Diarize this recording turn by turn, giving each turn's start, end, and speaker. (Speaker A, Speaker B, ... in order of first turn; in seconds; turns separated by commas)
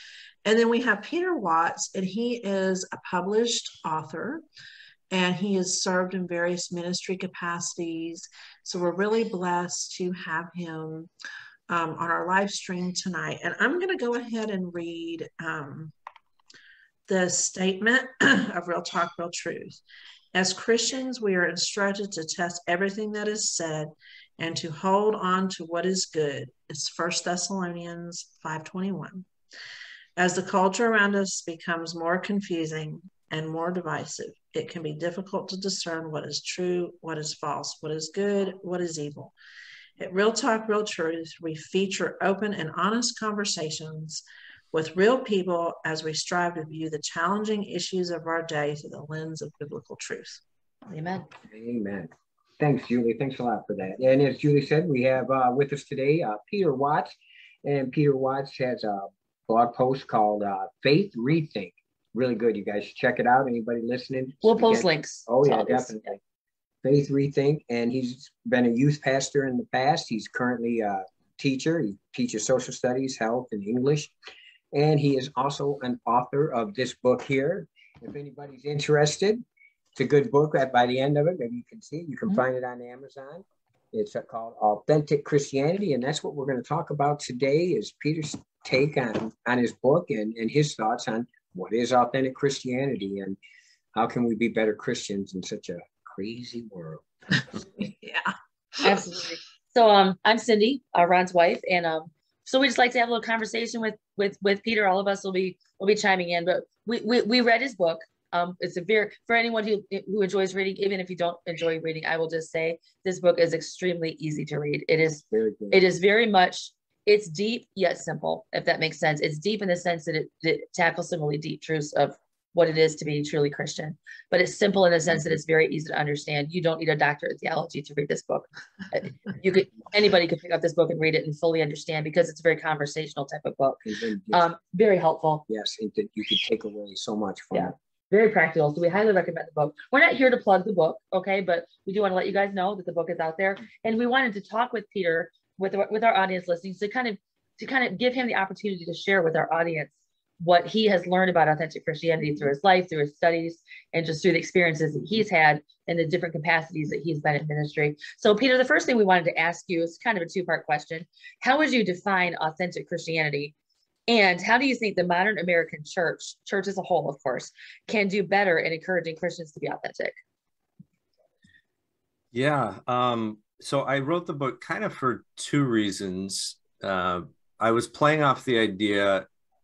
Speaker A: 0.4-4.4, Speaker A: 5.1-11.1, Speaker A: 11.7-15.9, Speaker A: 17.1-19.8, Speaker A: 20.3-29.3, Speaker A: 30.2-39.3, Speaker A: 40.0-50.4, Speaker B: 50.9-51.3, Speaker C: 51.5-57.1, Speaker C: 57.6-66.2, Speaker B: 64.4-66.1, Speaker C: 66.8-74.1, Speaker C: 74.7-79.4, Speaker C: 79.9-93.4, Speaker C: 93.9-97.0, Speaker A: 97.8-98.3, Speaker B: 98.8-135.4, Speaker C: 115.3-115.8, Speaker C: 133.8-134.4, Speaker C: 135.5-137.7, Speaker B: 137.5-163.5, Speaker B: 164.1-170.2, Speaker D: 172.3-179.2